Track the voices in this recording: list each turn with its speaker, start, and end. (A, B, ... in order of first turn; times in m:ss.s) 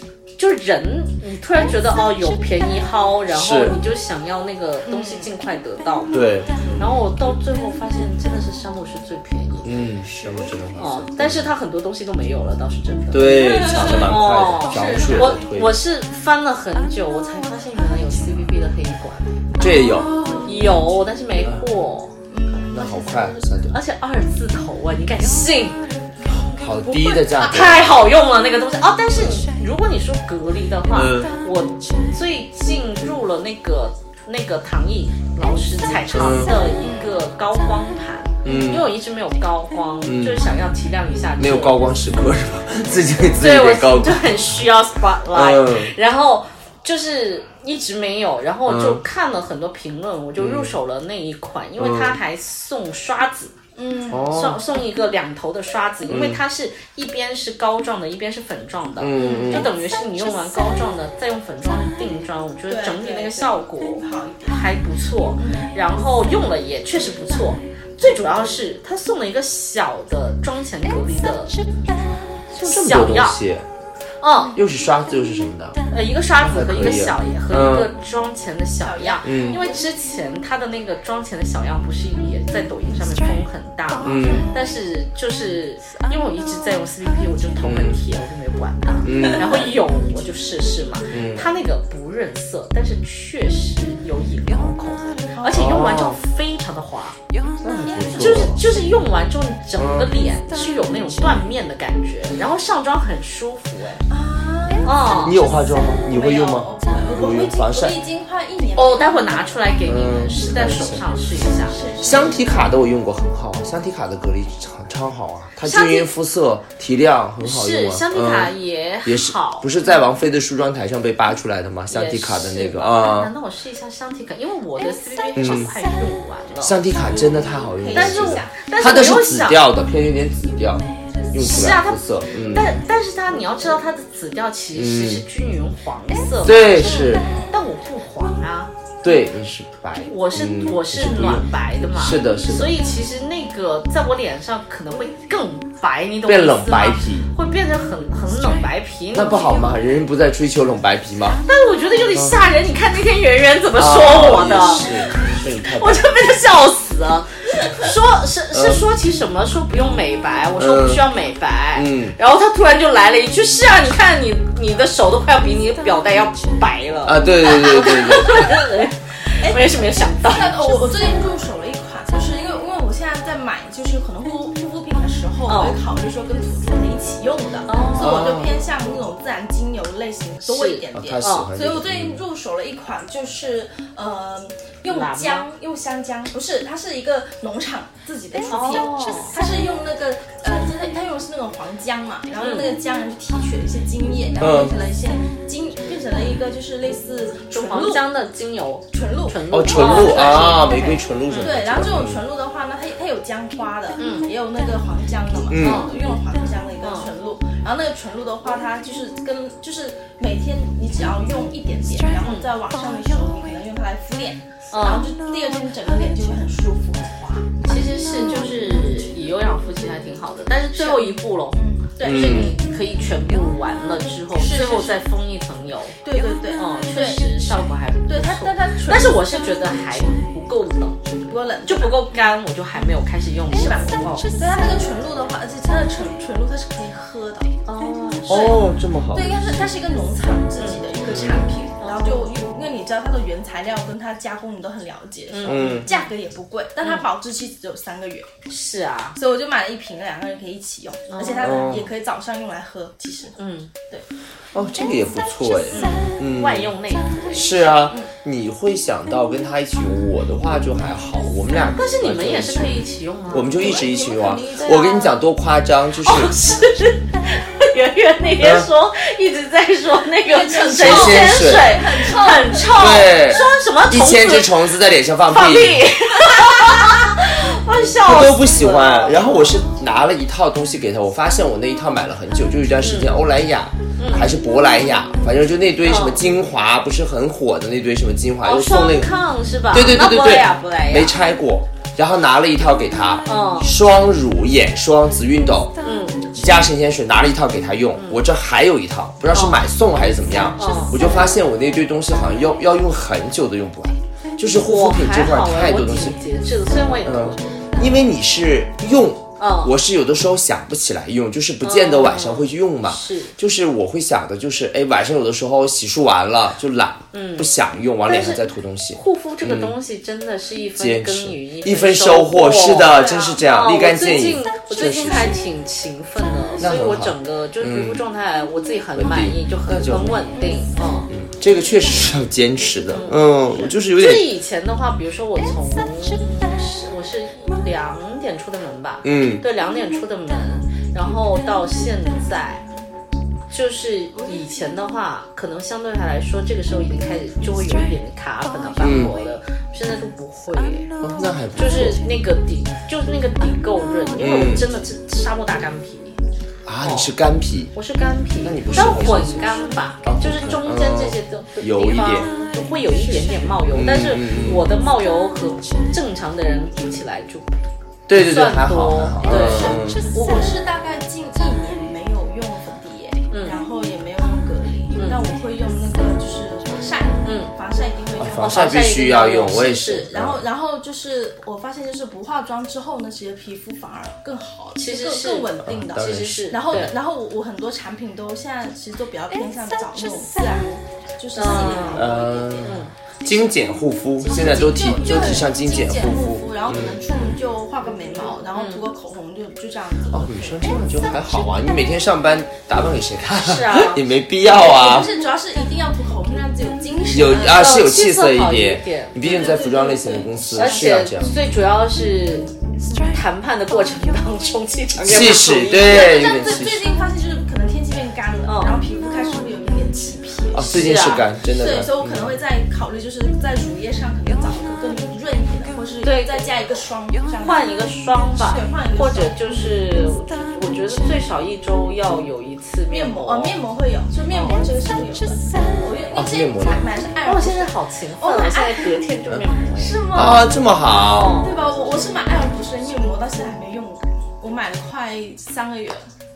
0:00.4-0:06.2 A
0:03.3-0:03.8 B
0:04.8-0:05.3 C
0:06.1-0:06.7 B
0:06.8-0:09.8 A
0:09.6-0:11.5 B
0:10.7-0:19.4 A
0:13.1-0:15.7 B
0:13.3-0:15.4 C
0:19.6-0:20.1 B
0:19.7-0:20.5 C
0:20.4-0:22.1 A
0:22.3-0:23.4 C
0:22.7-0:23.7 B
0:23.7-0:25.8 A
0:26.4-0:27.9 B
0:26.9-0:41.8 A
0:30.9-0:31.3 B
0:36.1-0:36.5 B
0:36.8-0:37.1 C
0:38.4-0:38.8 B
0:40.0-0:40.4 B
0:41.4-0:44.3 B
0:43.3-0:53.6 A
0:45.3-0:45.9 B
0:48.6-0:49.0 B
0:50.4-0:50.7 B
0:51.8-0:52.2 B
0:53.8-0:54.3 C
0:54.1-0:54.6 B
0:54.3-1:11.5 A
0:56.1-0:56.4 B
0:59.0-0:59.7 B
0:59.2-0:59.7 C
1:02.7-1:04.8 C
1:05.4-1:05.7 C
1:12.5-1:13.4 A
1:12.6-1:13.6 B
1:14.2-1:14.6 A
1:14.5-1:15.8 B
1:15.9-1:37.2 A
1:16.4-1:17.9 B
1:18.8-1:19.8 C
1:19.2-1:19.6 B
1:24.0-1:24.5 B
1:24.2-1:24.6 C
1:27.6-1:28.0 B
1:29.0-1:29.6 B
1:29.2-1:29.6 C
1:31.1-1:31.5 B
1:35.3-1:35.7 C
1:35.5-1:36.2 B
1:37.6-1:38.6 B
1:37.7-1:38.4 C
1:38.0-1:44.0 A
1:39.8-1:40.1 B
1:44.1-1:49.6 C
1:44.8-1:45.4 A
1:45.2-1:48.0 B
1:48.8-1:51.8 A
1:49.8-1:51.0 B
1:51.6-1:52.6 C
1:52.0-1:58.5 B
1:55.6-1:56.1 A
1:57.4-1:59.7 A
1:59.0-2:03.3 B
2:01.9-2:06.8 A
2:05.4-2:05.7 B
2:06.6-2:12.8 B
2:07.1-2:08.5 C
2:07.9-2:09.6 A
2:11.4-2:18.7 A
2:14.7-2:15.2 B
2:16.4-2:17.3 B
2:16.8-2:17.5 C
2:19.0-2:22.9 B
2:20.0-2:29.5 A
2:26.2-2:27.3 B
2:29.1-2:31.4 B
2:31.4-2:50.6 A
2:33.8-2:36.0 B
2:38.5-2:38.8 B
2:40.6-2:41.0 B
2:41.7-2:42.1 B
2:47.0-2:48.6 B
2:48.0-2:48.5 C
2:49.4-3:18.0 C
2:55.5-2:55.8 A
2:57.7-2:58.4 A
2:58.0-2:58.5 B
3:00.4-3:01.5 A
3:00.9-3:02.2 B
3:04.8-3:05.5 A
3:08.5-3:09.3 A
3:12.4-3:12.7 A
3:14.4-3:14.7 B
3:17.5-3:21.5 A
3:18.9-3:19.4 C
3:19.5-3:22.2 B
3:21.4-3:37.5 C
3:24.0-3:24.3 A
3:25.5-3:25.9 B
3:25.6-3:25.9 A
3:32.2-3:32.5 A
3:34.7-3:35.1 A
3:37.6-3:51.1 A
3:38.1-3:38.6 C
3:40.7-3:42.5 C
3:42.0-3:42.6 B
3:44.3-3:45.0 C
3:46.0-3:47.5 C
3:48.1-3:49.5 C
3:51.2-3:52.1 C
3:51.6-3:54.3 A
3:53.5-3:57.5 C
3:57.6-3:58.6 A
3:58.3-3:59.5 B
3:59.1-4:08.3 C
4:00.6-4:00.8 A
4:01.1-4:01.5 B
4:01.8-4:02.3 A
4:05.3-4:06.1 A
4:05.4-4:05.9 B
4:08.5-4:09.2 A
4:09.2-4:13.3 C
4:11.1-4:11.6 A
4:11.4-4:11.9 B
4:13.4-4:13.7 A
4:14.5-4:16.7 B
4:15.7-4:17.9 A
4:17.3-4:26.3 B
4:21.7-4:23.9 A
4:23.6-4:25.2 C
4:26.0-4:34.7 A
4:28.4-4:28.7 B
4:30.2-4:33.0 C
4:30.7-4:31.8 B
4:32.7-4:35.9 B
4:35.3-4:39.6 A
4:38.0-4:49.1 B
4:42.8-4:43.1 A
4:44.0-4:44.3 A
4:45.8-4:46.2 A
4:48.4-4:51.2 A
4:49.7-4:55.7 B
4:53.3-4:53.7 A
4:55.8-4:56.3 A
4:56.3-5:06.2 B
4:57.9-4:58.2 A
4:59.3-4:59.6 A
5:00.5-5:01.0 A
5:04.6-5:07.4 A
5:07.0-5:19.7 B
5:09.4-5:09.7 A
5:11.6-5:13.3 A
5:17.1-5:17.5 A
5:18.0-5:31.1 A
5:20.8-5:25.4 B
5:22.9-5:23.4 C
5:26.6-5:28.0 B
5:29.0-5:30.2 B
5:30.3-5:30.6 C
5:31.1-5:34.3 B
5:32.9-5:42.6 A
5:39.0-5:39.4 B
5:43.5-5:50.9 A
5:48.8-5:49.1 B
5:51.0-5:52.0 B
5:51.6-5:56.2 A
5:54.2-5:54.6 B
5:56.6-5:57.7 B
5:56.8-5:57.1 A
5:57.7-6:07.5 A
5:58.4-6:02.3 B
6:03.7-6:04.6 B
6:08.1-6:10.0 B
6:08.1-6:09.8 A
6:09.3-6:18.8 C
6:13.3-6:13.6 A
6:17.2-6:17.5 A
6:18.2-6:20.4 B
6:18.4-6:20.1 A
6:19.8-6:32.8 C
6:24.8-6:26.9 A
6:25.6-6:26.9 B
6:31.3-6:32.9 A
6:31.9-6:37.0 B
6:34.2-6:40.7 C
6:38.5-6:38.9 A
6:40.1-6:45.1 B
6:43.4-6:44.0 A
6:44.4-6:47.6 C
6:47.1-6:51.3 B
6:47.4-6:49.2 A
6:49.2-6:51.4 C
6:50.6-6:52.5 A
6:53.0-6:56.3 A
6:55.0-6:56.9 B
6:55.7-7:07.8 C
6:58.4-6:58.8 A
7:00.5-7:02.4 B
7:00.7-7:01.2 A
7:06.0-7:06.7 A
7:07.4-7:13.6 A
7:08.3-7:09.6 C
7:12.9-7:19.0 C
7:14.3-7:14.6 A
7:16.1-7:16.9 B
7:17.2-7:21.5 A
7:19.7-7:20.3 C
7:20.1-7:21.3 B
7:21.4-7:26.1 C